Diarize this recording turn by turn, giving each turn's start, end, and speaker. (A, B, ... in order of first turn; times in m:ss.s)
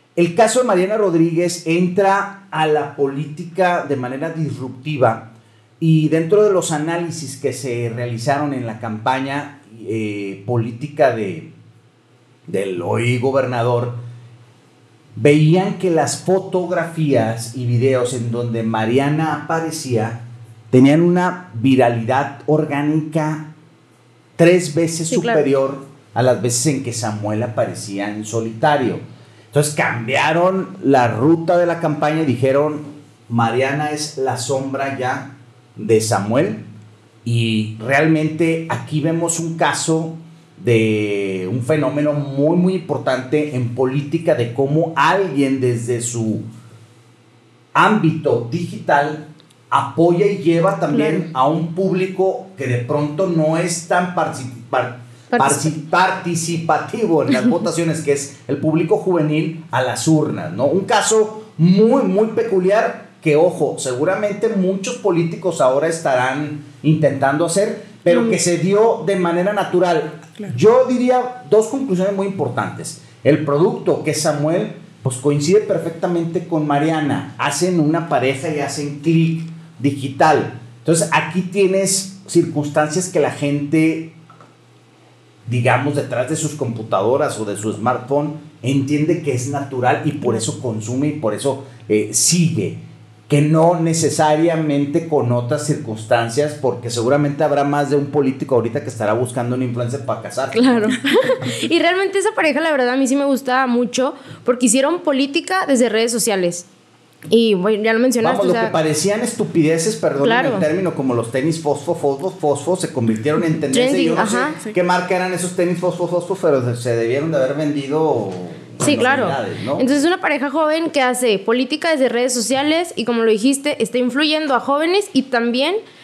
0:00.2-0:11.5 A
0:12.5-0:14.0 A
0:15.2-0:23.5 A
0:24.4-0:36.7 A
0:25.1-0:25.4 B
0:37.2-0:46.5 A
0:47.8-1:24.2 A
0:50.9-0:51.3 B
0:55.3-0:55.7 B
1:08.1-1:08.4 B
1:25.5-1:41.0 A
1:40.5-1:46.7 B
1:47.3-1:48.8 B
1:48.2-1:59.9 A
1:50.2-1:50.7 B
1:53.7-1:54.6 B
1:58.8-2:05.8 B